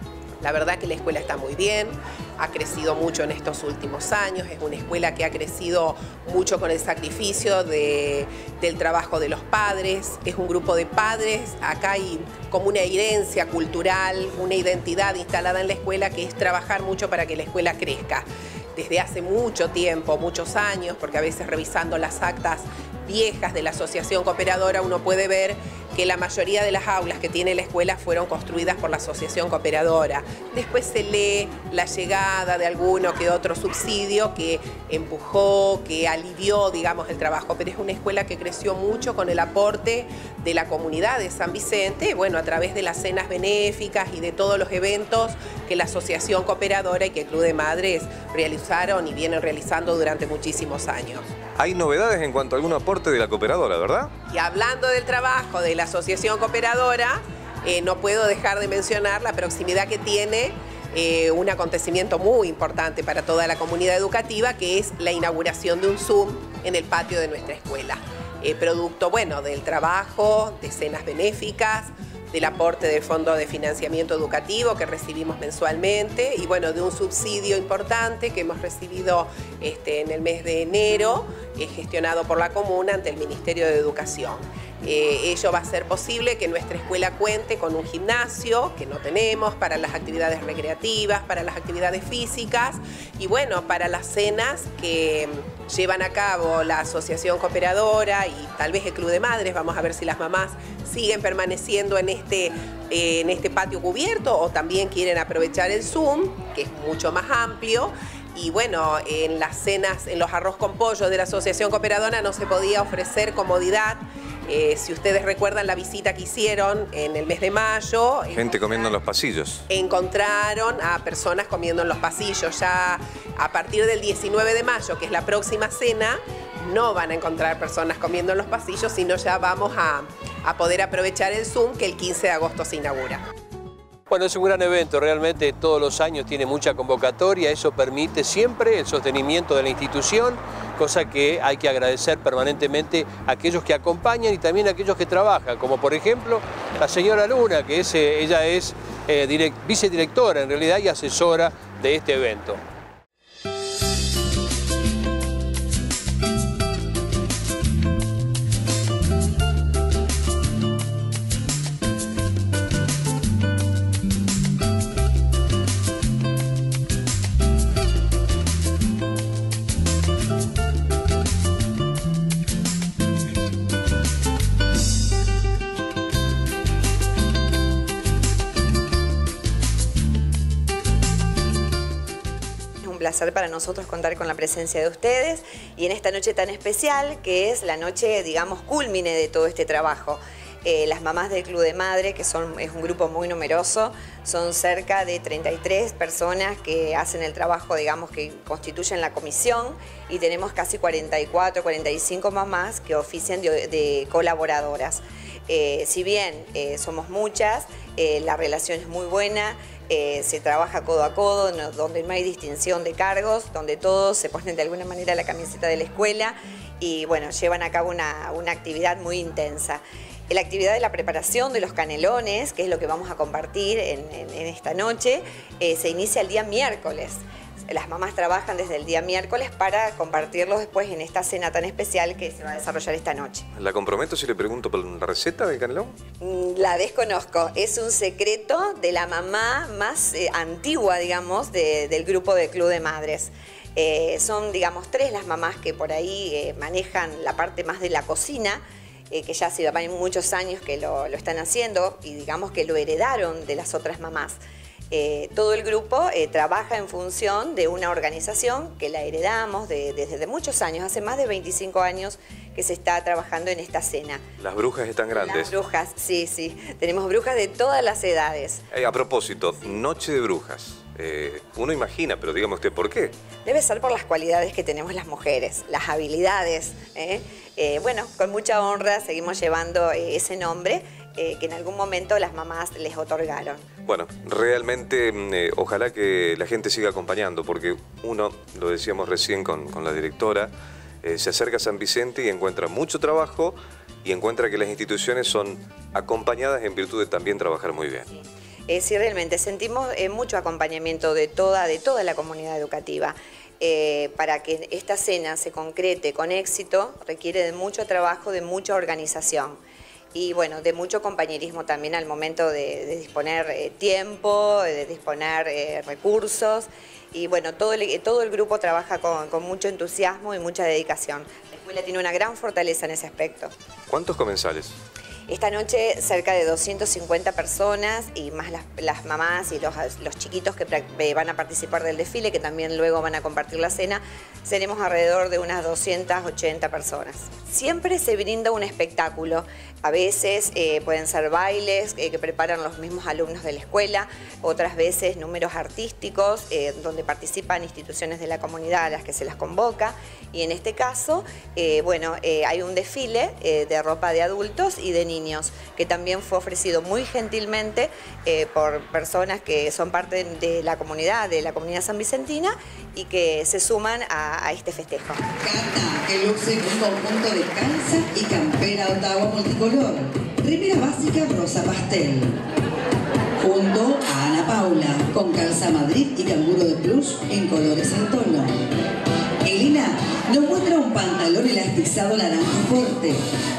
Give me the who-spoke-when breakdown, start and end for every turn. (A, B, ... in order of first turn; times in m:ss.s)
0:00.4-0:51.3 A
0:51.6-0:54.1 B
0:54.3-1:58.5 A
1:58.3-1:59.6 B
1:59.7-2:13.2 A
2:14.1-2:32.6 C
3:02.8-3:53.5 D
3:53.5-3:55.9 B
3:56.2-4:14.4 D
4:14.9-4:24.2 D
4:24.4-4:25.5 B
4:25.2-4:28.6 D
4:28.7-4:33.1 B
4:33.4-4:43.6 D
4:43.8-4:50.5 B
4:51.0-4:58.1 B
4:58.7-5:09.6 D
5:10.1-5:23.5 D
5:23.9-5:24.8 B
5:25.3-6:05.2 D
6:05.4-6:12.4 E
6:13.4-6:18.6 E
6:19.4-6:23.2 E